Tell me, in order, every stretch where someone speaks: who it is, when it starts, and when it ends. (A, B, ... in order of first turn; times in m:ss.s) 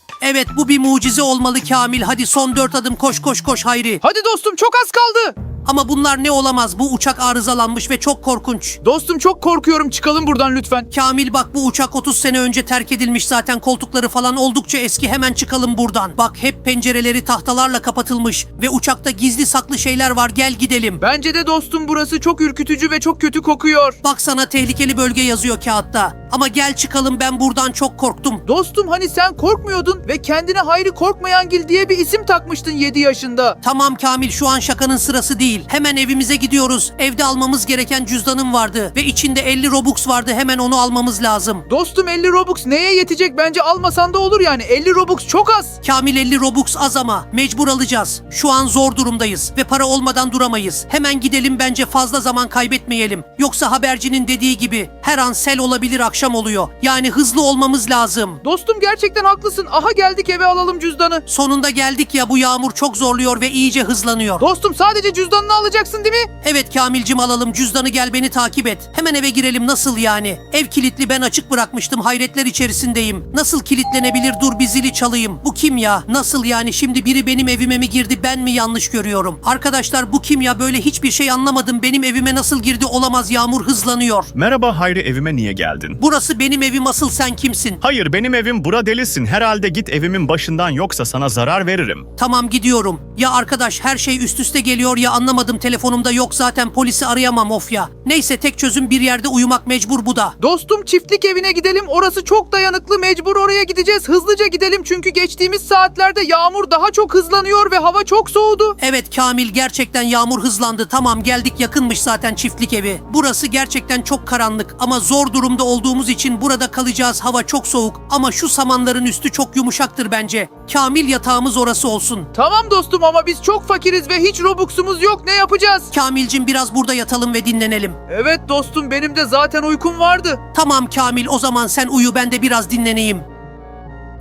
0:00.2-0:04.0 A
0:04.0-0:05.3 B
0:05.6-0:08.8 A
0:08.8-0:10.9 B
0:10.9-0:21.0 A
0:21.0-0:24.0 B
0:24.0-0:28.4 A
0:28.4-0:33.6 B
0:33.6-0:41.6 A
0:41.7-0:45.8 B
0:45.8-0:58.4 A
0:58.4-1:01.2 B
1:01.3-1:04.4 A
1:04.4-1:06.3 B
1:06.4-1:24.3 A
1:24.3-1:26.0 C
1:26.0-1:27.8 A
1:27.8-1:32.0 C
1:32.2-1:40.3 A
1:40.4-1:48.8 B
1:48.8-2:02.3 A
2:02.3-2:05.9 B
2:05.9-2:08.0 A
2:08.1-2:10.4 B
2:10.5-2:13.2 A